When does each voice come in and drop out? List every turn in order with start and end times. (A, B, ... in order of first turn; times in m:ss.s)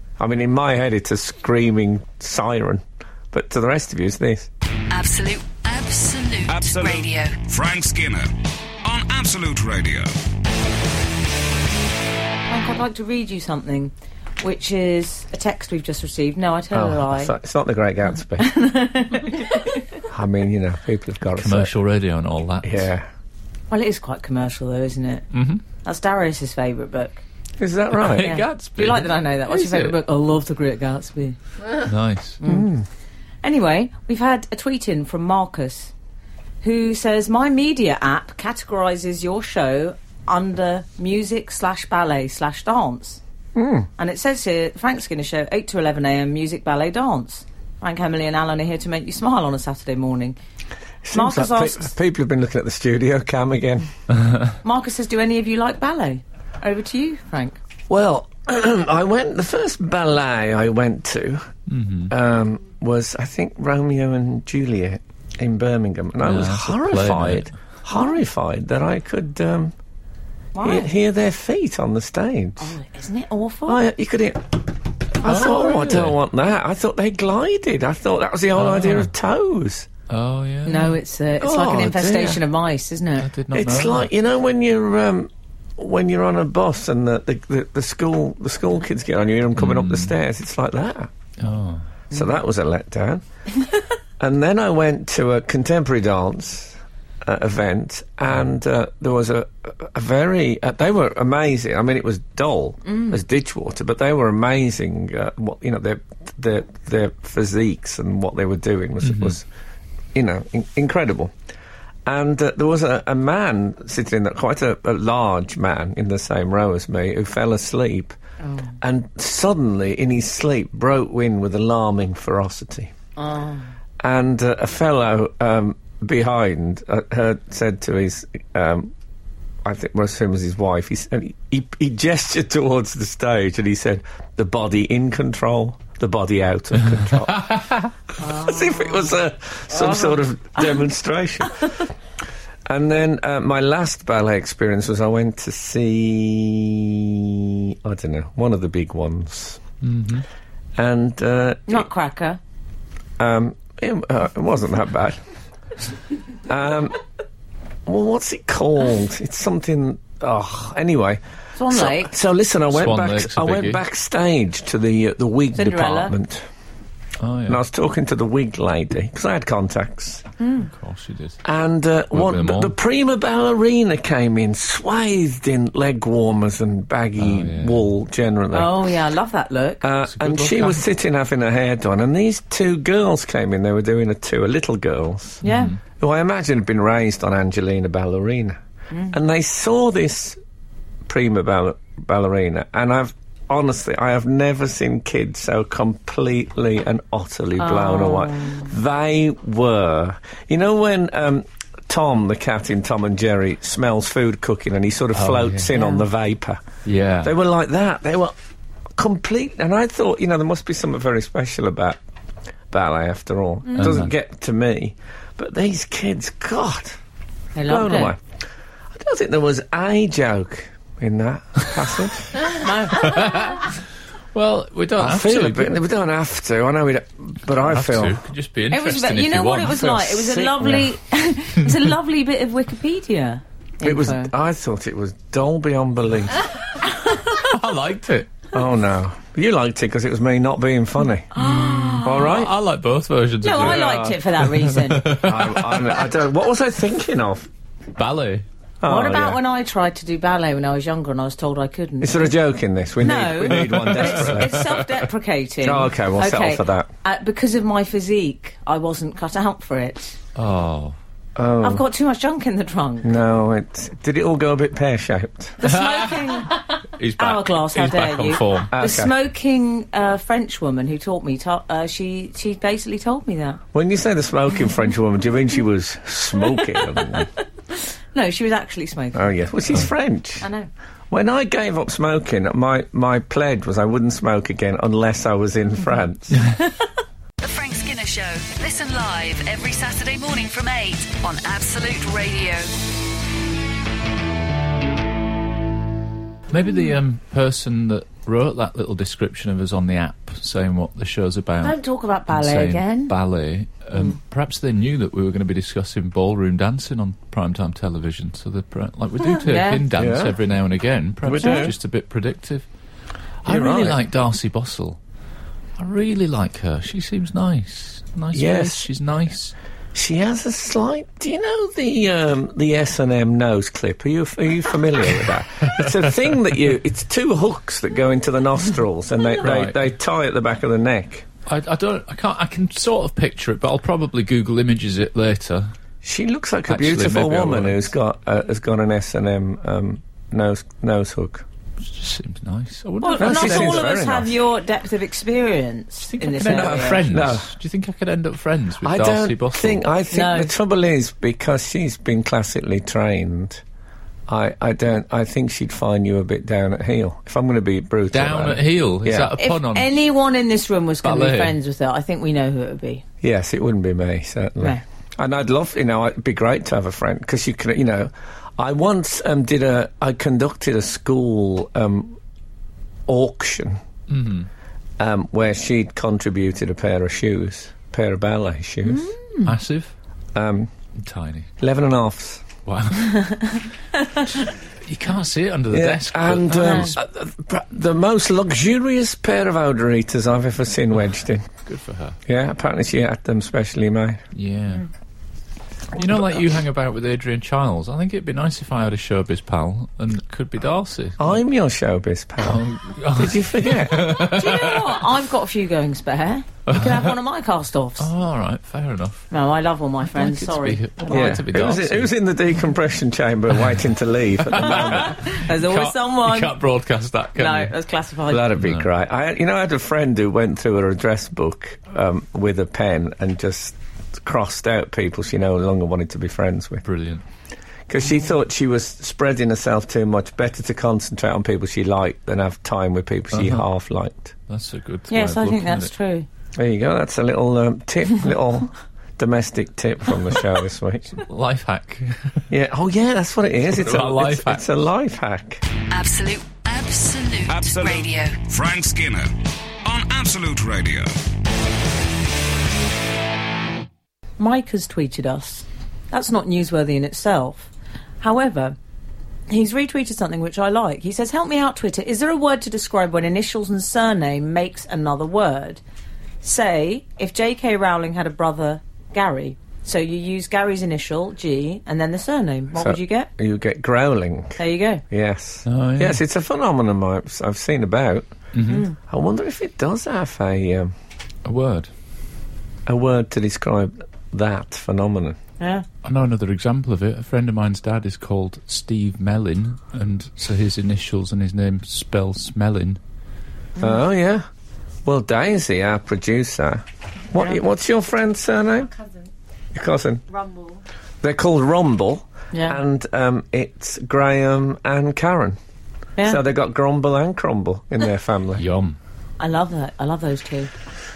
0:00.2-0:04.5 A
0:04.9-0:07.4 B
0:06.5-0:08.3 C
0:08.8-0:10.1 C
0:12.5-0:17.3 D
0:16.7-0:18.5 A
0:18.4-0:19.7 D
0:20.1-0:21.7 A
0:21.3-0:22.9 E
0:22.6-0:23.1 A
0:23.7-0:25.2 D
0:25.3-0:25.6 E
0:25.8-0:27.2 D
0:27.6-0:28.4 A
0:27.9-0:30.0 E
0:28.2-0:31.4 D
0:31.8-0:32.4 E
0:32.4-0:32.7 D
0:32.4-0:32.8 A
0:33.4-0:35.9 D
0:36.6-0:43.2 D
0:43.5-0:43.9 A
0:44.0-0:50.4 D
0:51.0-0:53.9 A
0:51.1-0:51.9 D
0:54.6-0:57.6 D
0:57.9-1:01.5 A
1:01.7-1:02.1 E
1:02.1-1:09.7 A
1:06.2-1:07.5 E
1:10.5-1:10.9 D
1:10.6-1:12.7 A
1:12.6-1:13.8 D
1:13.6-1:19.9 A
1:15.2-1:16.2 E
1:18.5-1:19.1 E
1:20.1-1:21.0 E
1:20.6-1:23.3 D
1:21.4-1:22.4 A
1:23.2-1:24.1 E
1:23.5-1:31.1 A
1:29.6-1:30.1 E
1:31.4-1:31.8 E
1:32.1-1:33.2 A
1:34.2-1:49.4 A
1:42.9-1:43.1 D
1:49.0-1:49.4 E
1:50.1-1:51.3 A
1:52.0-1:58.2 A
1:58.4-1:58.8 D
1:58.8-2:02.9 A
2:03.2-2:03.7 D
2:04.0-2:08.9 A
2:09.6-2:17.5 A
2:17.3-2:17.9 E
2:18.2-2:19.1 D
2:18.2-2:21.7 A
2:22.7-2:29.6 A
2:29.8-2:30.2 E
2:30.8-2:31.9 A
2:31.7-2:32.4 D
2:33.2-2:35.2 A
2:36.4-2:37.0 A
2:37.8-2:46.4 A
2:41.6-2:42.1 D
2:42.7-2:43.8 E
2:45.5-2:46.1 D
2:47.2-2:47.6 E
2:47.5-2:50.2 A
2:50.4-2:50.7 D
2:50.7-2:51.4 E
2:51.4-2:58.7 A
2:52.1-2:52.7 E
2:57.2-2:57.9 E
2:58.5-2:59.8 D
2:59.8-3:05.4 A
3:00.1-3:00.8 E
3:05.4-3:05.8 E
3:05.4-3:05.7 D
3:06.0-3:08.6 A
3:09.1-3:10.4 A
3:11.0-3:26.6 A
3:17.6-3:18.7 D
3:25.1-3:25.7 E
3:25.7-3:26.0 D
3:26.8-3:27.3 E
3:27.2-3:28.3 A
3:29.0-3:32.0 A
3:32.7-3:37.0 A
3:33.8-3:34.1 E
3:37.5-3:38.1 D
3:37.7-3:38.2 A
3:38.9-3:42.5 A
3:42.5-3:43.5 D
3:42.9-3:43.7 E
3:44.3-3:45.8 E
3:45.0-3:48.2 A
3:47.6-3:49.9 E
3:48.7-3:54.3 D
3:49.7-3:50.9 A
3:53.8-3:56.5 A
3:56.9-3:57.4 D
3:57.3-3:58.3 E
3:58.5-4:01.3 A
4:01.3-4:02.3 D
4:01.6-4:06.0 E
4:02.0-4:02.5 A
4:03.4-4:05.1 D
4:03.6-4:04.2 A
4:05.2-4:07.5 A
4:08.0-4:08.4 E
4:08.8-4:09.4 A
4:08.8-4:12.4 D
4:12.0-4:14.7 A
4:13.0-4:20.2 D
4:13.5-4:14.8 E
4:15.6-4:16.9 A
4:20.3-4:21.0 E
4:21.4-4:21.8 A
4:21.6-4:23.1 D
4:23.0-4:25.6 A
4:25.6-4:33.6 D
4:25.6-4:28.7 E
4:28.7-4:29.1 A
4:33.7-4:37.3 A
4:38.1-4:39.3 D
4:39.1-4:40.4 A
4:40.4-4:40.7 D
4:41.1-4:46.4 A
4:47.4-4:52.7 B
4:56.5-5:01.8 E
5:01.6-5:03.1 D
5:02.3-5:12.7 E
5:09.4-5:09.8 D
5:09.9-5:10.4 A
5:11.2-5:11.7 A
5:11.4-5:11.7 D
5:13.4-5:15.0 E
5:13.4-5:14.0 A
5:15.8-5:19.5 E
5:18.3-5:18.9 A
5:19.9-5:31.3 A
5:29.4-5:29.8 E
5:31.5-5:35.7 E
5:36.0-5:41.4 A
5:36.7-5:37.9 E
5:41.8-5:43.9 E
5:43.0-5:47.0 D
5:43.2-5:44.3 A
5:46.0-5:49.8 E
5:46.5-5:47.5 A
5:48.8-5:53.6 A
5:50.1-5:50.5 D
5:54.3-5:59.3 A
5:58.1-5:59.9 E
5:59.4-6:03.0 D
6:01.0-6:01.6 E
6:03.2-6:12.2 A
6:13.1-6:13.8 A
6:14.1-6:14.5 E
6:15.0-6:19.1 A
6:18.8-6:19.5 D
6:19.4-6:19.9 E
6:20.3-6:20.7 A
6:21.0-6:21.5 E
6:21.6-6:22.5 A
6:22.6-6:23.4 E
6:23.1-6:24.3 D
6:24.3-6:27.0 E
6:25.7-6:31.5 A
6:26.6-6:26.9 D
6:31.6-6:32.2 E
6:32.3-6:34.2 A
6:34.3-6:34.9 E
6:35.9-6:41.3 E
6:41.2-6:42.6 A
6:42.4-6:45.0 E
6:43.1-6:44.2 A
6:44.2-6:48.1 D
6:46.7-6:47.1 E
6:48.0-6:49.3 E
6:49.3-6:51.4 D
6:50.1-6:52.1 E
6:51.1-6:55.2 A
6:54.5-6:57.7 E
6:54.7-6:56.6 D
6:57.4-6:58.5 D
6:58.3-7:06.8 A
6:58.6-6:58.8 E
7:06.8-7:07.2 E
7:07.9-7:14.3 A
7:13.3-7:13.6 E
7:14.5-7:15.9 E
7:15.1-7:16.2 D
7:16.6-7:21.2 A
7:21.2-7:22.4 E
7:22.5-7:25.6 A
7:23.7-7:24.6 E
7:25.9-7:28.4 B
7:27.5-7:29.3 C
7:29.8-7:31.1 C
7:34.4-7:37.7 D
7:38.2-7:38.8 D
7:39.5-7:45.8 D
7:46.4-7:53.3 D
7:52.8-7:58.3 A
7:54.6-7:55.0 D
7:55.7-7:56.2 E
7:58.5-7:58.8 E
7:58.6-7:58.9 D
7:59.0-8:00.9 A
8:01.4-8:01.9 E
8:02.9-8:05.4 A
8:05.6-8:05.8 D
8:06.0-8:13.0 E
8:13.8-8:14.0 D
8:13.8-8:14.4 A
8:15.0-8:19.0 A
8:19.7-8:20.4 A
8:21.2-8:25.6 A
8:22.5-8:22.8 D
8:26.2-8:28.6 A
8:28.6-8:29.0 E
8:29.4-8:30.7 D